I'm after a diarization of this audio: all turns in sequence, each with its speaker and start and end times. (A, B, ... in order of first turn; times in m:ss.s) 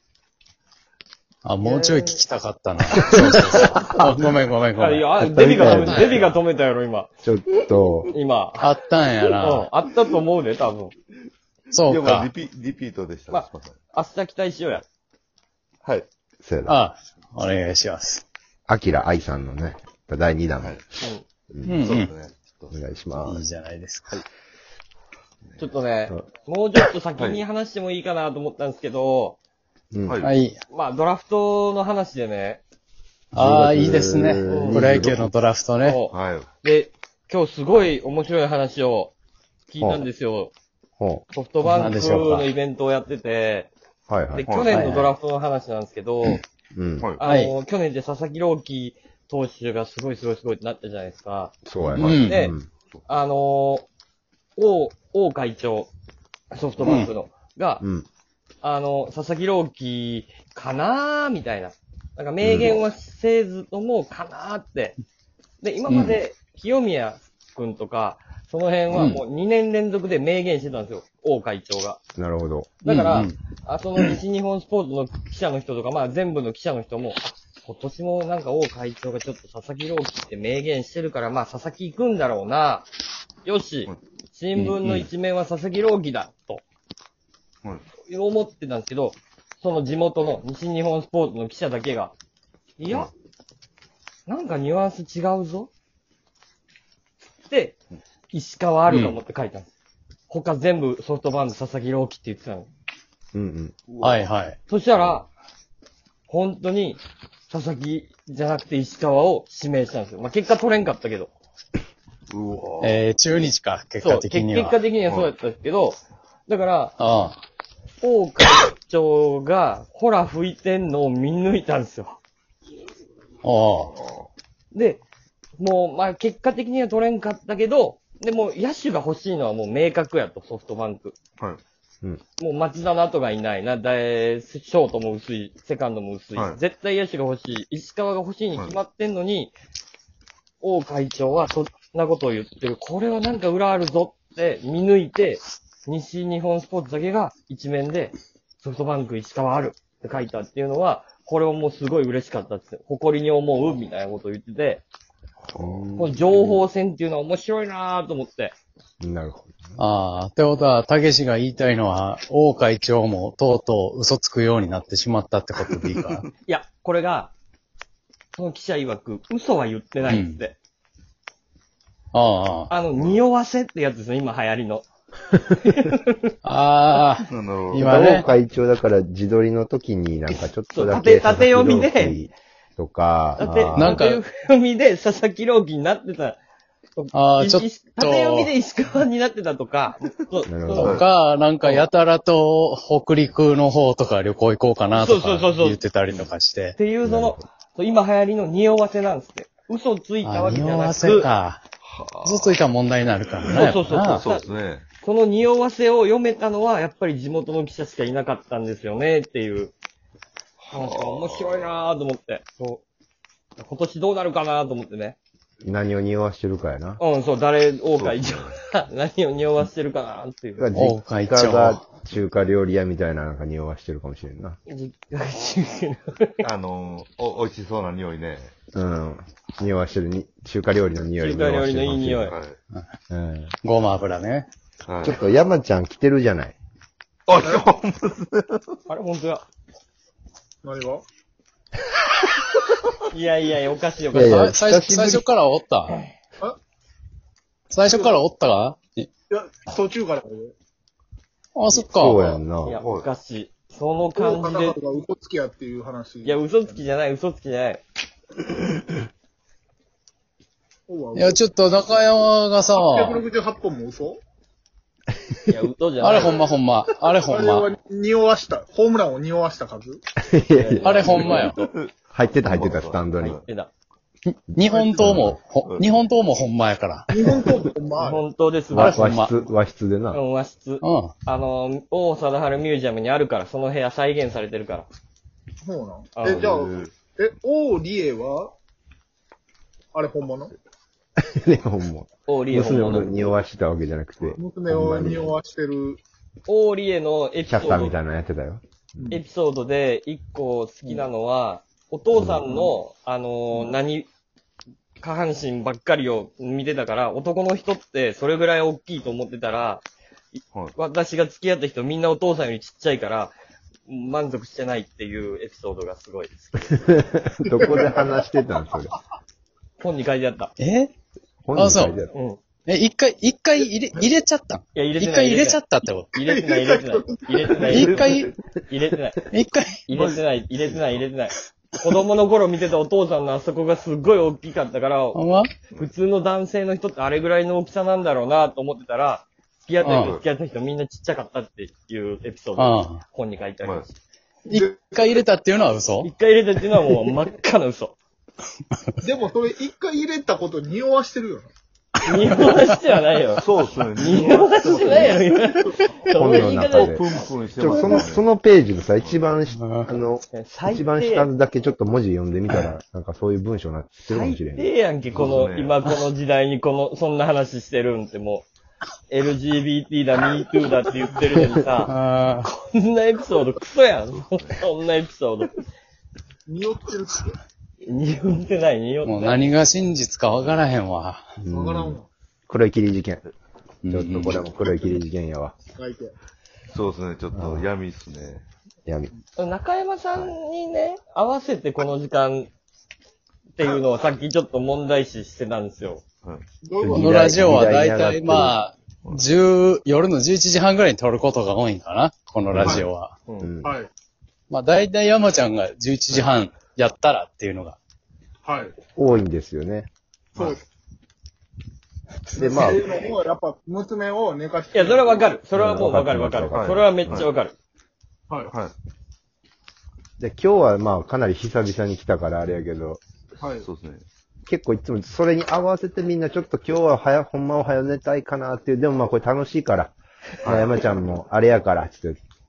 0:01.4-0:06.3 A
0:01.6-0:02.2 B
0:03.0-0:04.0 C
0:04.8-0:07.1 D
0:05.2-0:06.3 C
0:07.2-0:08.1 C
0:08.1-0:08.7 D
0:08.6-0:09.7 A
0:09.2-0:10.9 D
0:11.7-0:12.3 A
0:11.9-0:13.8 B
0:13.3-0:14.8 D
0:15.8-0:16.1 B
0:16.4-0:16.8 C
0:16.7-0:18.2 A
0:18.7-0:20.8 C
0:21.6-0:22.1 A
0:21.8-0:22.7 B
0:22.7-0:23.4 C
0:23.2-0:24.2 A
0:25.6-0:29.4 D
0:29.9-0:30.2 C
0:30.0-0:30.3 B
0:30.2-0:30.6 A
0:30.7-0:32.6 D
0:33.3-0:36.0 A
0:33.3-0:35.3 C
0:34.4-0:35.0 D
0:35.8-0:39.1 D
0:36.1-0:36.5 B
0:39.7-0:40.5 D
0:39.8-0:40.1 C
0:41.0-0:41.2 C
0:41.3-0:43.7 D
0:41.6-0:42.5 A
0:44.1-0:44.6 C
0:44.3-0:46.4 D
0:44.4-0:44.8 B
0:44.7-0:45.1 A
0:46.7-0:47.1 C
0:47.2-0:52.5 D
0:47.2-0:47.5 A
0:51.6-0:52.7 C
0:51.9-0:52.4 A
0:53.1-0:53.9 D
0:54.6-0:55.9 D
0:56.5-0:57.8 D
0:56.8-0:57.1 A
0:57.8-0:58.1 C
0:58.6-1:05.0 D
1:02.4-1:02.8 C
1:05.6-1:12.0 D
1:05.9-1:06.2 A
1:08.9-1:09.2 A
1:12.2-1:12.7 C
1:12.8-1:22.9 D
1:12.8-1:13.3 A
1:23.4-1:26.6 D
1:24.6-1:25.1 A
1:28.0-1:32.1 D
1:32.8-1:33.1 D
1:34.3-1:35.7 D
1:37.5-1:37.8 D
1:38.3-1:39.7 D
1:38.9-1:39.2 A
1:40.3-1:42.7 D
1:43.3-1:43.7 C
1:43.9-1:44.2 B
1:44.0-1:44.6 A
1:44.7-1:45.3 D
1:46.3-1:51.3 D
1:52.3-1:53.0 B
1:52.8-1:54.8 A
1:54.0-1:57.0 D
1:55.0-1:55.3 B
1:57.0-1:57.4 A
1:58.0-2:02.2 D
2:03.4-2:03.9 A
2:04.7-2:05.0 D
2:05.6-2:11.2 D
2:12.4-2:19.5 D
2:20.6-2:34.8 D
2:35.4-2:36.6 B
2:35.5-2:36.0 C
2:36.0-2:38.5 D
2:39.0-2:39.7 C
2:39.8-2:46.2 A
2:46.4-2:47.3 D
2:48.3-2:50.6 D
2:50.0-2:50.4 A
2:52.1-2:52.7 A
2:52.7-2:54.8 D
2:52.9-2:53.2 B
2:55.6-2:56.3 D
2:56.4-2:58.3 A
2:57.3-2:57.9 B
2:57.7-3:03.9 C
3:00.7-3:02.2 D
3:03.4-3:06.4 D
3:03.8-3:04.2 A
3:06.9-3:11.0 D
3:07.1-3:08.5 A
3:10.4-3:11.0 C
3:10.8-3:11.0 B
3:10.8-3:16.8 A
3:14.9-3:15.8 D
3:16.8-3:21.3 D
3:17.0-3:17.4 C
3:20.2-3:21.6 A
3:21.8-3:22.6 B
3:22.2-3:24.2 A
3:23.5-3:24.5 D
3:24.1-3:24.8 B
3:25.0-3:29.7 D
3:30.6-3:31.8 B
3:30.7-3:32.8 D
3:33.6-3:35.2 D
3:35.6-3:37.0 C
3:37.0-3:40.7 D
3:37.9-3:38.5 B
3:40.6-3:44.6 C
3:40.7-3:41.8 A
3:44.6-3:46.4 D
3:46.4-3:48.5 B
3:48.7-3:52.4 C
3:51.2-3:52.4 D
3:52.3-3:52.6 B
3:53.1-3:53.5 C
3:53.6-3:54.5 A
3:54.8-3:55.2 B
3:55.0-3:56.5 C
3:57.3-3:58.8 B
3:57.4-3:57.7 E
3:58.9-3:59.4 D
4:00.6-4:01.0 E
4:03.1-4:04.4 D
4:04.1-4:05.2 C
4:04.2-4:06.0 A
4:07.7-4:09.1 A
4:07.9-4:08.2 E
4:09.3-4:10.5 E
4:11.5-4:12.2 A
4:11.8-4:12.8 C
4:12.6-4:14.8 D
4:12.7-4:13.1 B
4:14.2-4:16.8 E
4:16.2-4:17.8 D
4:20.9-4:21.4 E
4:21.1-4:23.2 A
4:22.7-4:24.2 E
4:25.4-4:26.4 D
4:26.0-4:27.7 A
4:27.2-4:30.0 E
4:30.2-4:31.0 C
4:30.5-4:31.5 D
4:30.8-4:31.6 A
4:31.1-4:33.4 B
4:32.1-4:33.4 C
4:33.2-4:33.7 D
4:34.3-4:37.1 A
4:34.7-4:35.0 E
4:35.0-4:35.4 C
4:35.6-4:36.0 B
4:37.1-4:38.2 E
4:38.0-4:39.1 D
4:38.7-4:39.3 A
4:38.8-4:40.2 C
4:40.1-4:44.9 D
4:40.8-4:41.1 A
4:45.6-4:48.5 E
4:46.2-4:46.4 D
4:46.2-4:46.9 B
4:49.9-4:50.5 E
4:51.2-4:55.3 C
4:52.3-4:53.1 D
4:54.4-4:56.0 E
4:56.4-4:58.0 D
4:57.5-4:59.1 C
4:59.1-5:04.1 D
5:02.1-5:02.5 C
5:05.0-5:13.3 D
5:13.9-5:16.9 D
5:16.8-5:19.0 C
5:17.5-5:18.2 E
5:19.8-5:20.5 D
5:20.6-5:20.9 A
5:21.5-5:22.1 C
5:21.5-5:22.0 A
5:22.1-5:22.4 D
5:22.7-5:26.2 A
5:24.7-5:25.6 D
5:26.1-5:28.1 D
5:26.2-5:27.6 E
5:27.7-5:28.3 A
5:27.8-5:28.3 B
5:28.7-5:29.2 D
5:29.2-5:29.8 A
5:29.9-5:35.2 D
5:29.9-5:31.0 B
5:35.1-5:35.5 A
5:35.8-5:44.0 D
5:39.8-5:40.1 A
5:39.8-5:40.2 B
5:42.6-5:43.0 A
5:44.5-5:46.1 A
5:44.5-5:44.8 E
5:46.0-5:48.0 D
5:49.0-5:51.5 E
5:52.0-5:53.4 D
5:53.4-5:55.2 B
5:54.0-5:56.9 D
5:56.1-6:04.7 C
5:56.4-5:58.2 B
5:59.5-5:59.9 A
6:00.3-6:01.3 D
6:04.1-6:08.4 D
6:05.2-6:05.8 B
6:09.1-6:15.6 D
6:11.8-6:12.5 A
6:14.2-6:14.6 B
6:16.4-6:17.4 E
6:17.8-6:19.6 D
6:19.0-6:21.2 A
6:21.4-6:23.2 C
6:21.5-6:22.1 E
6:23.8-6:24.4 A
6:23.9-6:25.6 C
6:25.7-6:26.2 E
6:26.7-6:28.4 B
6:27.3-6:27.7 C
6:28.9-6:29.1 C
6:29.4-6:32.5 D
6:33.6-6:36.0 D
6:36.6-6:37.0 E
6:36.8-6:38.6 C
6:36.9-6:43.1 A
6:42.5-6:42.8 C
6:42.6-6:42.9 E
6:43.4-6:43.7 C
6:43.6-6:43.9 E
6:44.5-6:47.8 A
6:48.4-6:48.7 E
6:48.9-6:49.9 C
6:50.3-6:50.6 E
6:52.4-6:55.3 E
6:52.4-6:52.8 C
6:54.7-6:57.5 D
6:55.5-6:57.3 C
6:56.5-6:57.3 B
6:58.3-6:58.5 E
6:58.5-6:58.7 B
7:00.2-7:03.0 C
7:03.4-7:03.7 E
7:03.6-7:04.0 B
7:04.4-7:12.2 C
7:10.4-7:10.8 B